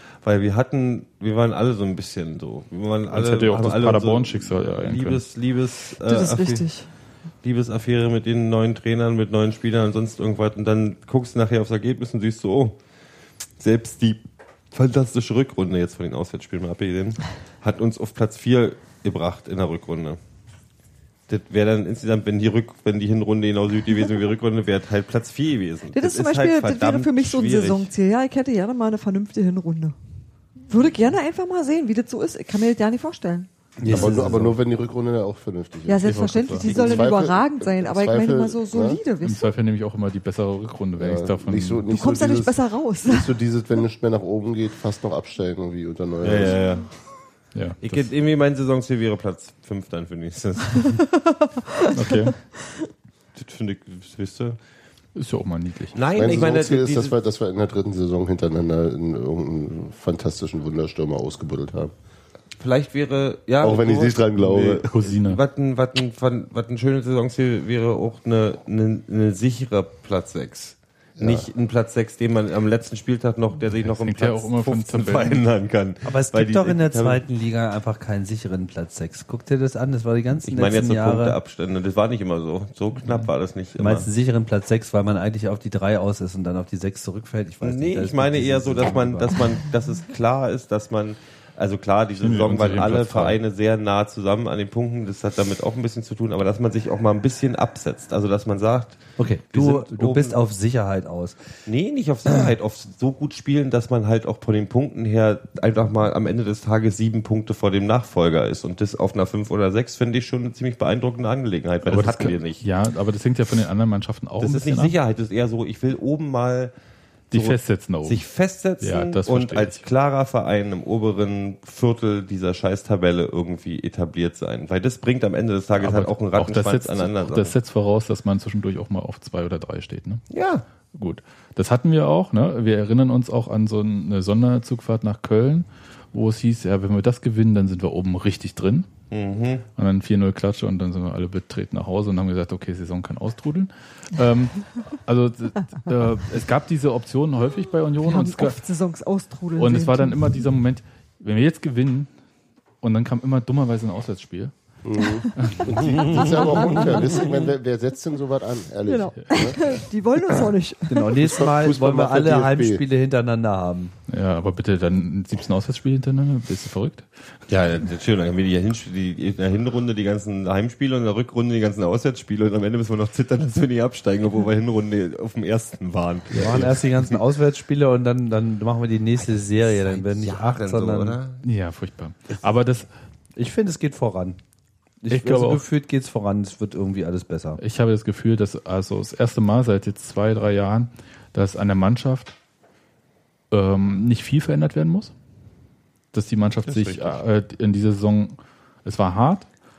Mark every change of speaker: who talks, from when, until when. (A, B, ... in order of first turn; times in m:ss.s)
0:00.2-0:06.6 A
0:03.1-0:05.2 B
0:06.0-0:06.9 C
0:07.4-0:12.8 A
0:13.6-0:20.2 A
0:21.3-0:27.9 A
0:25.9-0:30.0 C
0:30.7-0:33.5 C
0:33.8-0:34.6 D
0:33.8-0:39.0 E
0:33.9-0:34.2 B
0:35.9-0:39.5 C
0:36.0-0:36.8 B
0:39.2-0:41.8 B
0:41.0-0:46.6 E
0:41.9-0:43.3 C
0:46.2-0:46.9 A
0:47.5-0:48.1 B
0:47.8-0:51.0 A
0:50.9-0:52.8 C
0:51.9-0:52.4 B
0:53.4-0:54.6 A
0:55.1-0:56.0 B
0:55.9-0:57.2 A
0:56.1-1:01.9 E
1:02.6-1:17.2 A
1:03.6-1:04.8 E
1:04.8-1:05.4 B
1:11.2-1:11.5 E
1:13.8-1:15.4 B
1:16.0-1:21.4 D
1:20.4-1:24.1 A
1:23.8-1:29.4 D
1:27.6-1:40.4 A
1:32.2-1:33.4 B
1:39.2-1:41.4 D
1:41.6-1:52.6 A
1:51.8-1:54.9 B
1:54.4-1:56.7 A
1:57.3-1:58.2 B
1:57.3-2:07.6 A
1:58.8-1:59.8 B
2:05.8-2:10.2 B
2:10.3-2:10.6 A
2:10.9-2:18.9 B
2:19.1-2:19.6 A
2:19.8-2:28.6 B
2:28.0-2:30.4 C
2:29.6-2:32.1 B
2:32.8-2:34.5 B
2:34.8-2:39.6 E
2:35.4-2:36.8 B
2:36.6-2:37.0 C
2:38.9-2:41.2 C
2:40.9-2:43.9 D
2:41.2-2:42.8 E
2:44.1-2:47.1 B
2:47.5-2:57.2 A
2:56.3-3:01.2 D
2:59.2-3:01.4 A
3:01.4-3:02.9 B
3:03.4-3:04.4 D
3:05.0-3:07.6 D
3:05.1-3:05.6 B
3:07.6-3:12.3 B
3:13.5-3:15.1 B
3:16.1-3:19.5 B
3:16.6-3:17.2 A